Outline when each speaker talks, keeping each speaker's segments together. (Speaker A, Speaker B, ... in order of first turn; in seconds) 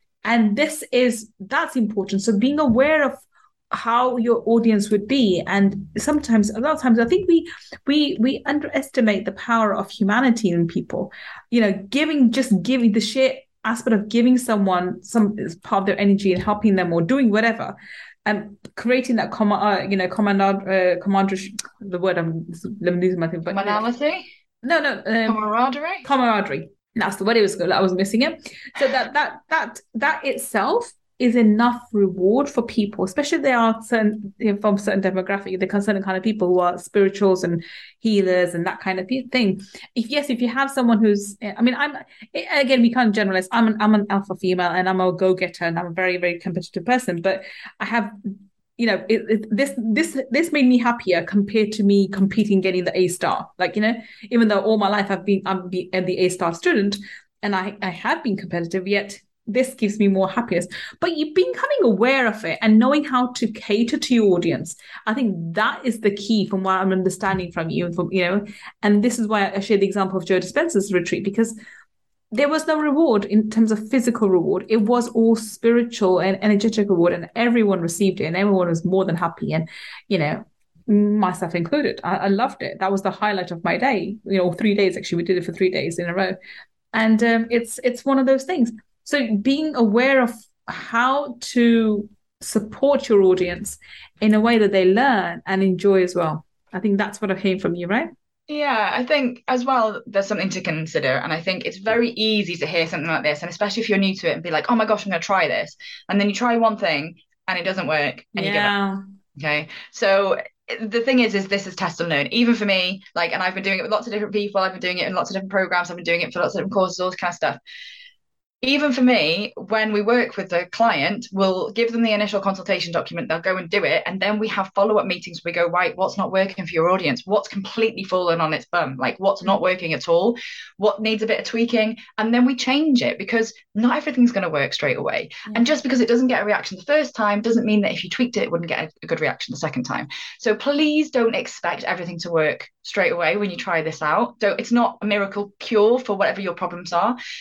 Speaker A: 0.2-23.8, 24.6-25.4, 26.0-71.5, 72.3-86.3, 86.9-98.1, 108.3-109.0
Speaker B: 23.5-24.2, 25.2-26.0, 98.5-108.7, 109.4-117.6, 118.6-147.2